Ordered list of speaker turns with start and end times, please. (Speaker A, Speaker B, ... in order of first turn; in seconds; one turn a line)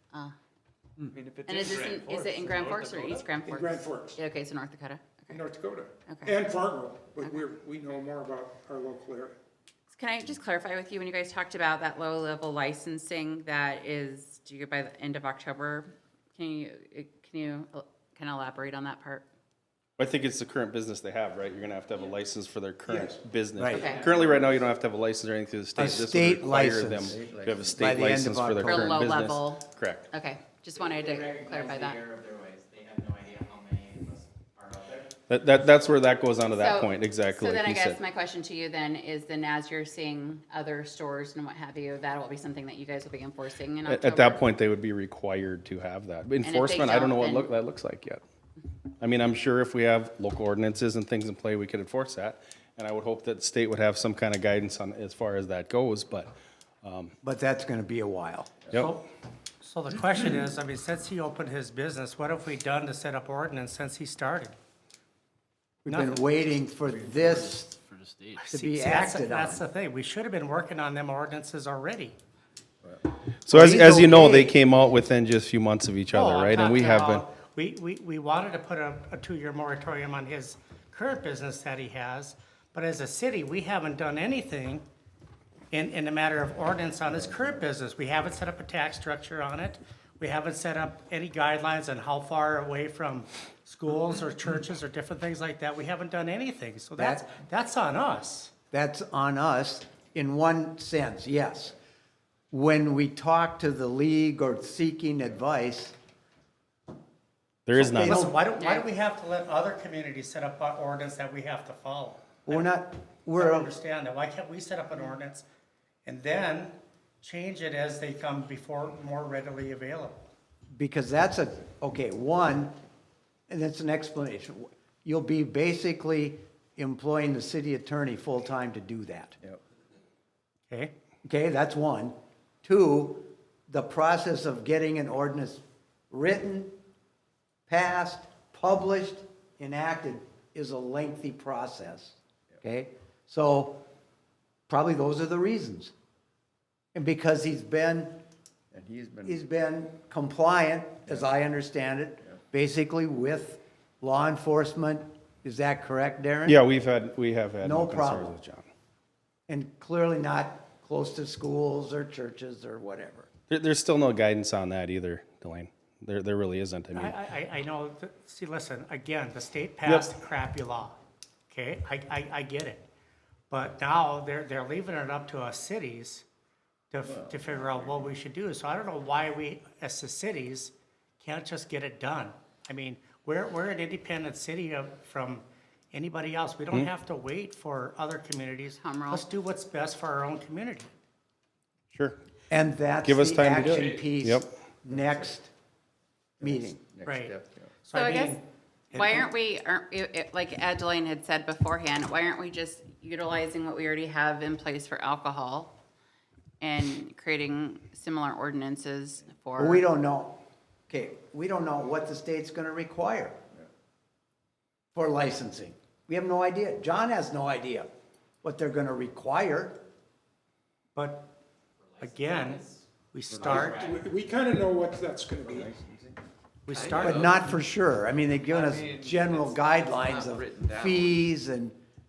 Speaker A: 1.1-3.1
Speaker B: 1.4-5.4
Speaker C: 3.5-4.2
Speaker C: 5.3-9.4
Speaker B: 6.1-6.3
Speaker B: 9.9-19.2
Speaker D: 20.0-30.1
Speaker C: 22.9-23.2
Speaker E: 23.6-23.9
Speaker B: 23.7-24.0
Speaker A: 23.8-24.2
Speaker E: 25.8-27.2
Speaker F: 27.1-27.9
Speaker E: 27.7-28.9
Speaker B: 28.6-32.0
Speaker A: 31.1-35.1
Speaker D: 35.3-38.0
Speaker B: 36.5-44.4
Speaker D: 43.9-48.2
Speaker B: 46.4-47.5
Speaker D: 49.0-57.1
Speaker E: 57.2-58.5
Speaker G: 58.8-59.0
Speaker G: 59.6-64.5
Speaker G: 65.9-66.2
Speaker E: 65.9-67.8
Speaker G: 68.3-72.2
Speaker E: 68.5-69.7
Speaker D: 73.5-77.3
Speaker E: 73.5-74.6
Speaker G: 76.1-84.8
Speaker G: 85.7-98.5
Speaker E: 97.0-97.2
Speaker E: 98.7-101.8
Speaker E: 102.5-106.0
Speaker D: 107.7-108.2
Speaker E: 107.7-108.4
Speaker G: 108.0-112.8
Speaker B: 108.6-108.9
Speaker E: 112.5-113.7
Speaker G: 113.3-115.5
Speaker G: 116.1-120.2
Speaker E: 120.7-122.8
Speaker E: 123.5-129.4
Speaker E: 131.2-136.8
Speaker E: 137.7-143.8
Speaker E: 144.7-145.9
Speaker E: 146.9-148.2
Speaker F: 148.7-149.4
Speaker E: 149.2-156.6
Speaker D: 156.5-158.7
Speaker E: 157.6-158.3
Speaker E: 159.5-163.3
Speaker D: 163.5-167.2
Speaker G: 166.9-171.0
Speaker D: 169.9-170.1
Speaker G: 171.5-172.8
Speaker G: 173.5-176.2
Speaker G: 176.9-190.9
Speaker F: 177.0-178.2
Speaker B: 188.8-189.3
Speaker E: 192.5-195.5
Speaker D: 193.0-194.5
Speaker F: 194.9-195.3
Speaker F: 196.4-197.8
Speaker E: 196.4-196.8
Speaker G: 197.0-198.4
Speaker B: 197.9-198.4
Speaker G: 198.9-199.3
Speaker B: 198.9-205.8
Speaker B: 206.6-209.9
Speaker E: 209.6-213.4
Speaker E: 214.9-217.9
Speaker E: 218.4-219.8
Speaker G: 220.9-221.3
Speaker A: 222.0-222.7
Speaker G: 222.0-223.8
Speaker F: 223.3-223.6
Speaker A: 223.5-224.0
Speaker C: 223.8-225.7
Speaker F: 225.4-226.2
Speaker G: 226.7-227.6
Speaker A: 226.7-227.4
Speaker E: 227.0-231.8
Speaker A: 228.4-231.2